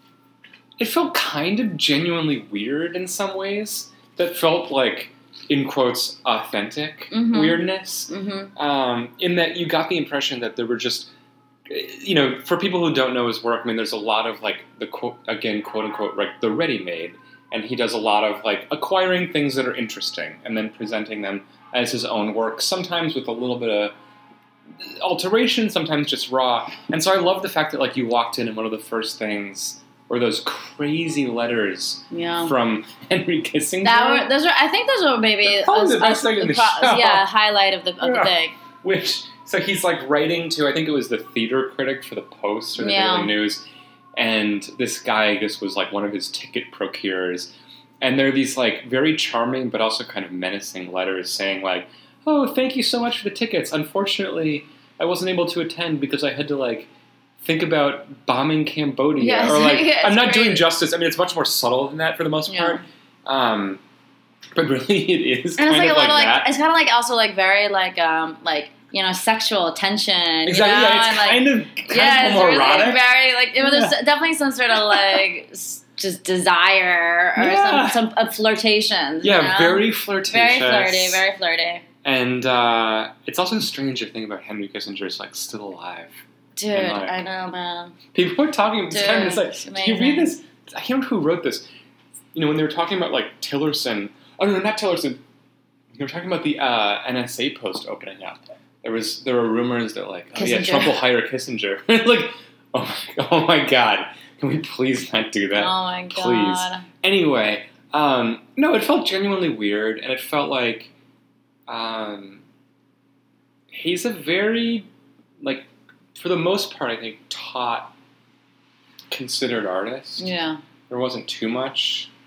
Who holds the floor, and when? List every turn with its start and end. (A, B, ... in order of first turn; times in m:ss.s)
0:00.8-0:11.1 A
0:07.1-0:08.5 B
0:11.7-0:23.9 A
0:24.8-0:34.3 A
0:32.1-0:32.5 B
0:33.8-0:38.6 B
0:35.4-0:37.2 A
0:38.0-0:43.6 A
0:42.8-0:43.3 B
0:44.2-0:56.9 A
0:57.4-1:03.8 A
0:59.2-1:00.7 B
1:02.5-1:02.8 B
1:04.6-1:06.5 A
1:05.6-1:21.8 B
1:10.4-1:13.1 A
1:13.6-1:14.0 A
1:14.9-1:15.2 A
1:17.4-1:18.0 A
1:19.2-1:21.2 A
1:22.0-1:27.2 A
1:26.6-1:28.0 B
1:28.1-1:31.6 A
1:28.9-1:30.3 B
1:32.3-1:35.2 A
1:36.0-1:50.9 A
1:40.4-1:41.0 B
1:45.6-1:46.8 B
1:51.7-1:52.4 A
1:53.7-1:54.9 A
1:55.4-1:57.9 A
1:59.1-2:00.3 A
2:00.2-2:00.6 B
2:00.9-2:02.1 A